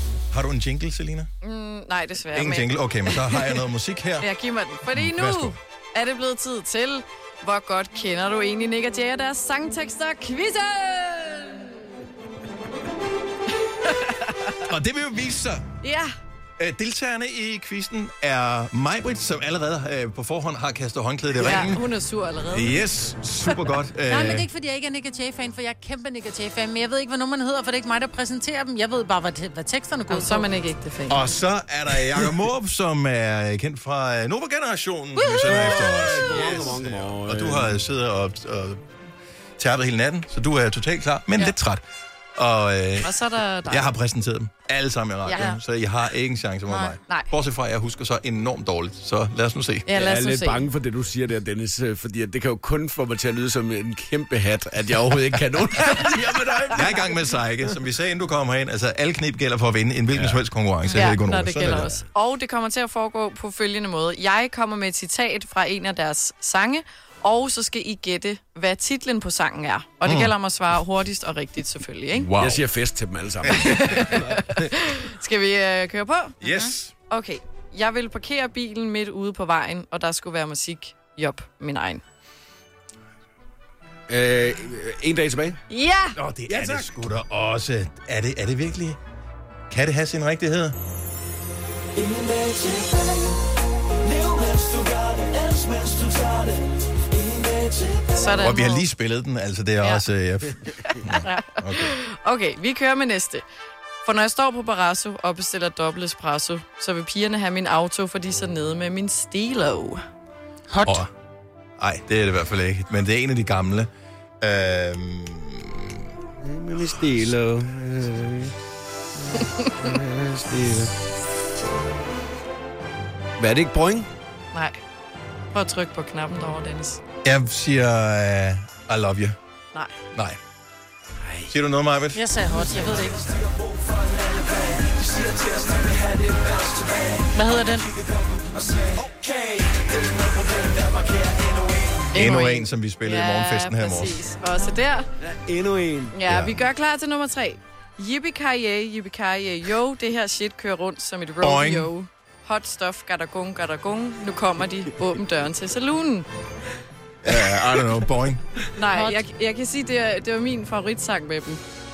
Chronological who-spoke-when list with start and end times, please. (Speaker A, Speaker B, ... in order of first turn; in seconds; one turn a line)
Speaker A: 0.3-1.3
Speaker B: 1.4-3.5
Speaker A: 2.3-4.3
Speaker B: 4.2-11.9
Speaker A: 4.9-5.5
Speaker B: 13.8-14.5
Speaker A: 14.6-15.6
Speaker B: 15.8-16.1
Speaker A: 16.6-21.9
Speaker B: 21.3-22.8
Speaker A: 22.5-24.5
Speaker C: 24.1-30.5
Speaker B: 30.1-31.3
Speaker A: 31.1-38.8
Speaker B: 35.2-35.6
Speaker D: 35.4-37.8
Speaker A: 39.6-41.8
Speaker A: 42.4-43.1
Speaker B: 43.0-43.9
Speaker A: 43.7-49.9
Speaker B: 45.2-45.5
Speaker C: 46.7-47.0
Speaker B: 49.9-50.7
Speaker D: 49.9-57.1
Speaker A: 56.7-61.9
Speaker D: 60.1-60.4
Speaker B: 60.9-72.3
Speaker D: 61.6-62.0
Speaker A: 70.0-70.3
Speaker A: 72.1-72.6
Speaker D: 72.4-74.6
Speaker B: 73.5-76.4
Speaker A: 76.4-76.9
Speaker B: 77.1-82.0
Speaker D: 84.1-85.6
Speaker B: 85.7-86.2
Speaker A: 86.2-89.0
Speaker D: 86.5-87.0
Speaker A: 89.7-90.7
Speaker E: 92.0-93.3
Speaker E: 94.1-98.0
Speaker B: 98.1-98.9
Speaker A: 98.4-102.0
Speaker B: 100.8-103.4
Speaker B: 104.0-110.0
Speaker C: 110.7-111.0
Speaker A: 111.8-113.9
Speaker A: 114.4-116.0
Speaker D: 116.4-118.5
Speaker D: 119.3-120.9
Speaker D: 123.4-124.1
Speaker B: 124.5-124.8
Speaker B: 125.5-127.0
Speaker A: 127.2-129.3
Speaker A: 131.5-132.3
Speaker C: 132.1-133.3
Speaker E: 133.3-137.2
Speaker C: 137.3-137.9
Speaker E: 138.1-142.0
Speaker B: 142.1-145.1
Speaker A: 142.1-144.2
Speaker D: 145.2-146.1
Speaker B: 146.1-156.3
Speaker A: 146.2-146.6
Speaker A: 151.4-151.9
Speaker A: 157.2-158.4
Speaker B: 158.7-161.6
Speaker C: 158.9-159.2